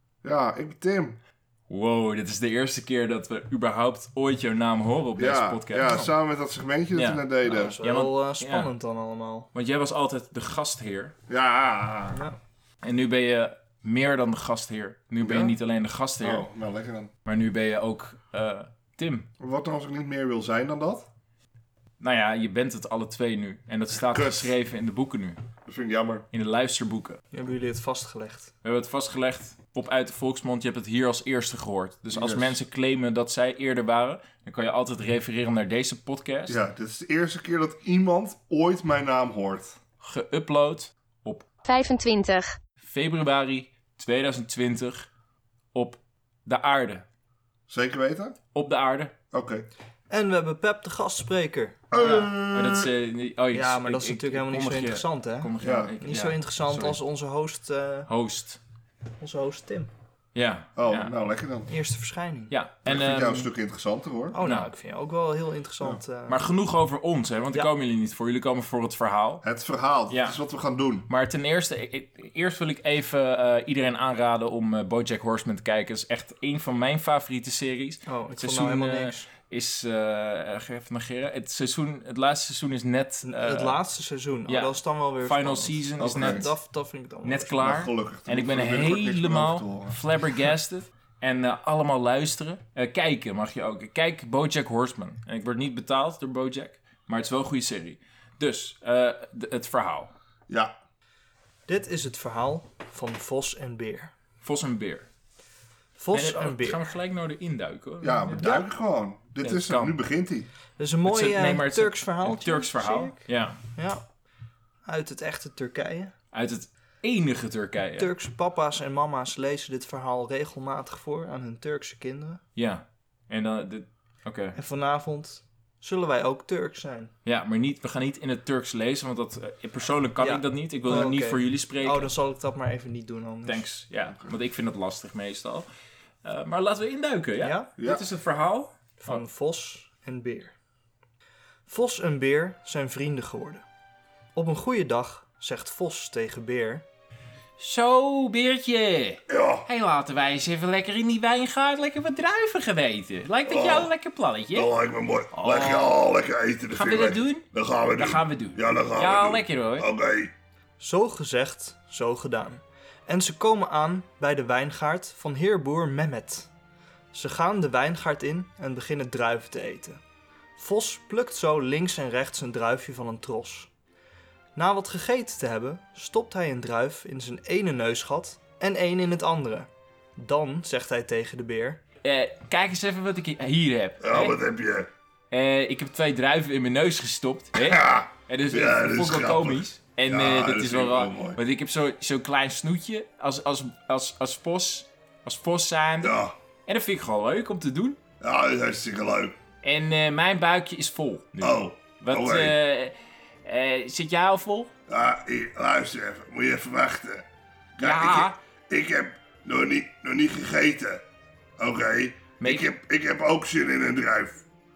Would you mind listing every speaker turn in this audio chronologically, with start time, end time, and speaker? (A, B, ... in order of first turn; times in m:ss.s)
0:00.2-0:01.2 A
0:01.7-0:06.1 B
0:05.2-0:07.8 A
0:06.9-0:07.2 B
0:07.4-0:09.5 C
0:07.8-0:08.7 B
0:09.5-0:11.2 B
0:11.3-0:12.2 A
0:12.1-0:12.4 C
0:12.8-0:16.5 B
0:15.2-0:15.6 A
0:16.2-0:17.1 A
0:17.2-0:19.3 B
0:19.4-0:21.1 A
0:22.0-0:25.4 B
0:24.1-0:24.5 A
0:25.6-0:26.2 A
0:26.3-0:27.2 B
0:27.3-0:28.5 C
0:28.6-0:36.6 B
0:32.1-0:32.6 A
0:36.5-0:39.8 A
0:40.0-0:41.5 B
0:42.8-0:45.1 B
0:45.7-0:47.0 B
0:47.7-0:48.4 A
0:48.5-0:49.2 B
0:49.3-0:49.7 A
0:50.1-0:52.3 C
0:51.9-0:52.9 A
0:52.5-0:57.0 B
0:53.5-0:58.1 C
0:55.6-0:55.9 A
0:58.1-0:58.6 B
0:59.2-0:59.9 C
1:00.4-1:01.2 B
1:00.8-1:01.7 A
1:01.7-1:02.6 C
1:02.5-1:03.5 B
1:02.8-1:04.4 A
1:04.3-1:06.4 C
1:04.4-1:04.7 B
1:06.3-1:09.4 B
1:09.4-1:11.1 A
1:10.1-1:10.4 B
1:11.1-1:23.8 B
1:18.1-1:19.3 C
1:23.2-1:27.7 C
1:24.5-1:26.6 B
1:26.0-1:26.4 A
1:27.2-1:40.1 B
1:27.6-1:30.0 A
1:41.7-1:44.1 C
1:44.4-1:45.1 B
1:46.0-1:46.8 C
1:46.1-1:48.5 B
1:48.0-1:50.5 A
1:49.4-1:50.0 B
1:50.8-1:54.0 C
1:51.1-1:53.6 B
1:54.9-1:56.1 C
1:56.3-1:58.1 B
1:58.0-2:02.4 C
2:02.6-2:04.6 B
2:04.6-2:07.1 C
2:07.2-2:12.1 B
2:10.2-2:13.7 C
2:13.4-2:15.7 B
2:16.2-2:19.2 B
2:17.4-2:17.7 C
2:17.8-2:18.0 A
2:19.0-2:20.6 C
2:21.7-2:23.6 C
2:24.4-2:26.8 C
2:27.6-2:34.7 B
2:29.3-2:29.7 A
2:33.5-2:33.9 A
2:34.5-2:40.3 A
2:35.3-2:36.0 B
2:36.7-2:39.9 B
2:40.8-2:46.5 C
2:47.1-2:50.0 C
2:50.6-2:53.7 C
2:54.6-3:01.8 C
3:02.0-3:04.4 B
3:04.0-3:04.9 A
3:05.3-3:18.0 B
3:07.6-3:11.4 A
3:16.0-3:16.3 A
3:18.2-3:19.4 A
3:19.6-3:22.9 B
3:21.4-3:22.5 A
3:23.4-3:24.7 B
3:24.9-3:27.3 A
3:27.8-3:31.0 A
3:27.8-3:28.4 B
3:31.6-3:34.4 A
3:32.4-3:32.7 B